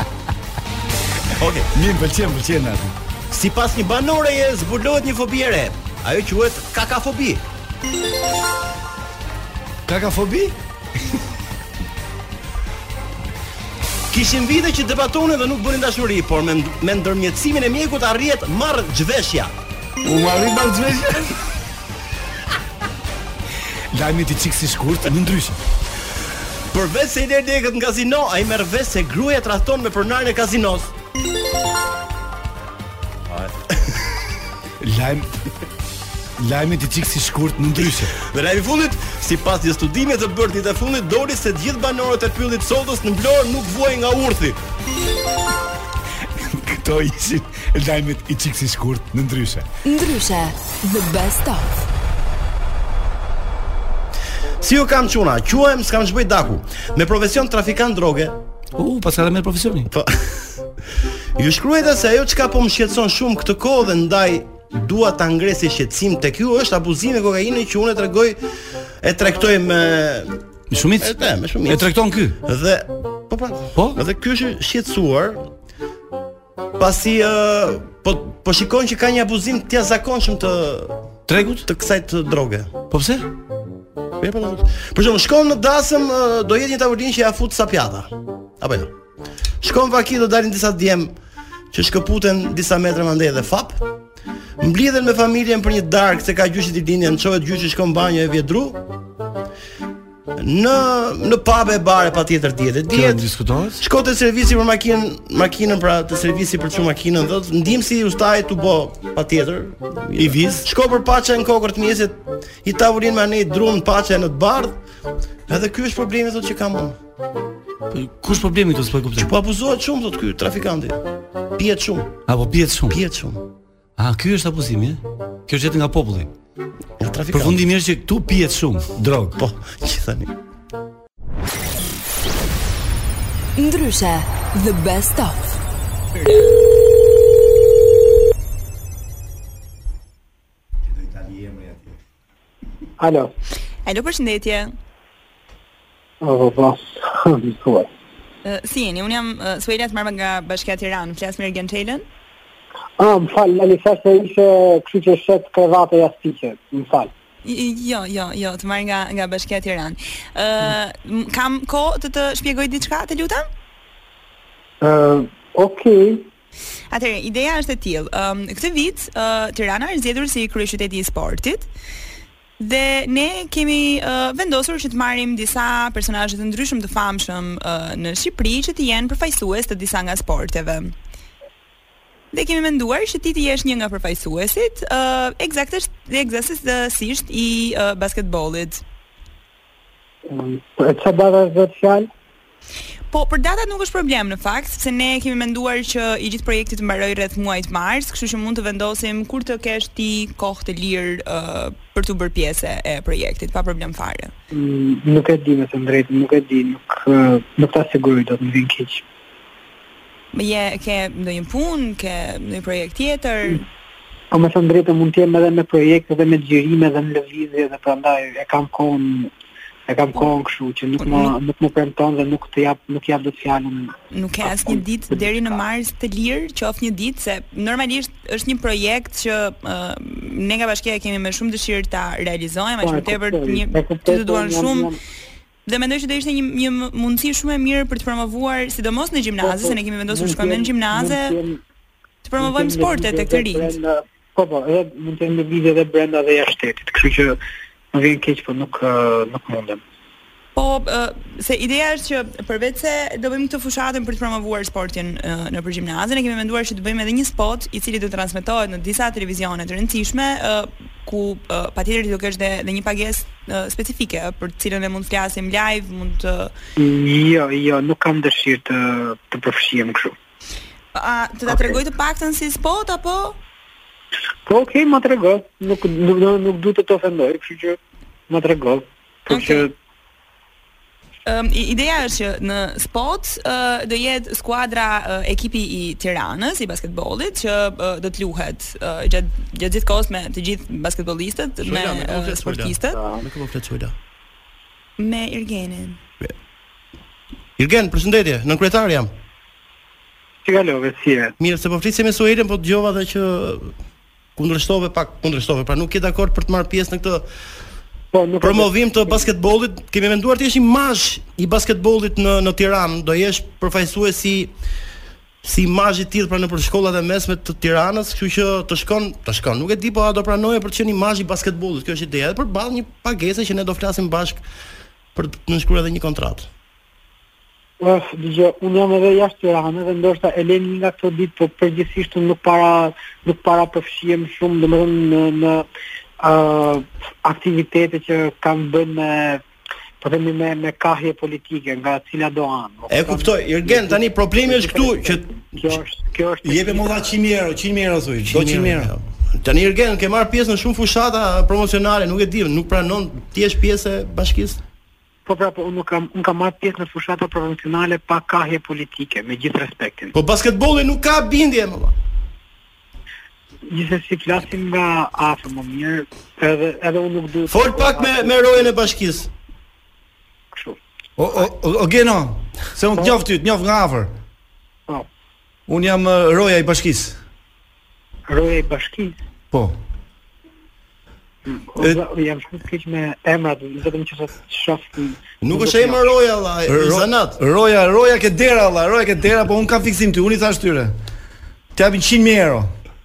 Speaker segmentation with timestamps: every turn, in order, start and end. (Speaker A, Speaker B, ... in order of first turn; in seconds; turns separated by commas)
Speaker A: 1.4-1.7, Speaker B: 1.7-3.0, Speaker A: 3.3-7.4, Speaker B: 9.8-10.6, Speaker A: 14.1-19.5, Speaker B: 20.0-21.4, Speaker B: 23.9-25.6, Speaker A: 26.7-30.9, Speaker A: 33.3-34.0, Speaker B: 34.8-35.3, Speaker B: 36.4-38.1, Speaker A: 38.2-44.6, Speaker B: 46.3-49.7, Speaker C: 49.8-51.8, Speaker A: 54.6-58.4, Speaker B: 58.7-59.9, Speaker A: 59.9-60.5, Speaker A: 61.4-68.4, Speaker A: 69.0-70.4, Speaker B: 70.7-72.4, Speaker A: 71.0-75.5, Speaker A: 76.8-81.0, Speaker B: 81.3-81.7, Speaker A: 81.6-82.7, Speaker B: 82.9-83.3, Speaker A: 84.2-88.9, Speaker A: 89.6-91.1, Speaker A: 91.7-93.8, Speaker A: 94.6-98.8, Speaker A: 100.4-103.3, Speaker B: 102.9-103.8, Speaker A: 103.8-114.8, Speaker B: 110.1-110.7, Speaker A: 115.5-117.0, Speaker B: 117.9-119.3, Speaker A: 119.2-121.0, Speaker A: 121.5-122.2, Speaker B: 122.3-123.0, Speaker A: 122.9-123.4, Speaker B: 124.0-126.3, Speaker A: 127.0-127.6, Speaker B: 127.3-129.4, Speaker A: 129.4-130.3, Speaker C: 133.6-135.6, Speaker D: 136.2-136.5, Speaker B: 140.9-142.0, Speaker E: 143.0-143.3, Speaker D: 143.8-144.7, Speaker E: 146.2-147.9, Speaker D: 148.4-152.0, Speaker E: 153.0-157.1, Speaker D: 157.4-163.4, Speaker E: 164.8-166.3, Speaker D: 166.9-171.7, Speaker D: 172.6-180.9, Speaker D: 182.3-188.8, Speaker E: 190.3-192.1, Speaker D: 193.1-204.3, Speaker E: 204.5-209.0, Speaker D: 210.3-213.6, Speaker E: 214.3-219.3, Speaker E: 219.9-223.9, Speaker D: 221.0-221.3, Speaker D: 224.1-234.9, Speaker E: 224.4-225.2, Speaker E: 232.8-235.0, Speaker D: 235.7-241.4, Speaker E: 239.4-241.6, Speaker D: 242.2-243.8, Speaker E: 242.4-247.4, Speaker E: 247.9-249.8, Speaker D: 250.5-266.5, Speaker E: 266.8-270.1, Speaker D: 270.9-273.4, Speaker E: 274.5-279.7, Speaker D: 279.3-279.6, Speaker D: 281.2-293.0, Speaker A: 291.6-293.9, Speaker D: 295.0-296.0, Speaker A: 297.6-299.1, Speaker E: 300.4-301.3, Speaker A: 301.4-303.7, Speaker A: 304.4-307.2, Speaker E: 308.1-309.3, Speaker A: 308.4-314.5, Speaker A: 315.4-324.4, Speaker A: 325.1-326.5, Speaker E: 327.8-335.6, Speaker E: 336.2-339.4, Speaker E: 340.0-347.1, Speaker A: 342.9-345.8, Speaker B: 346.4-348.9, Speaker A: 348.2-354.6, Speaker E: 355.2-360.1, Speaker A: 360.1-361.9, Speaker E: 363.7-368.7, Speaker A: 367.5-369.3, Speaker E: 370.5-370.8, Speaker B: 371.2-374.1, Speaker B: 375.7-377.2, Speaker E: 378.3-379.2, Speaker B: 379.5-379.8, Speaker E: 381.5-386.1, Speaker A: 385.4-387.4, Speaker B: 386.7-390.9, Speaker B: 391.7-392.7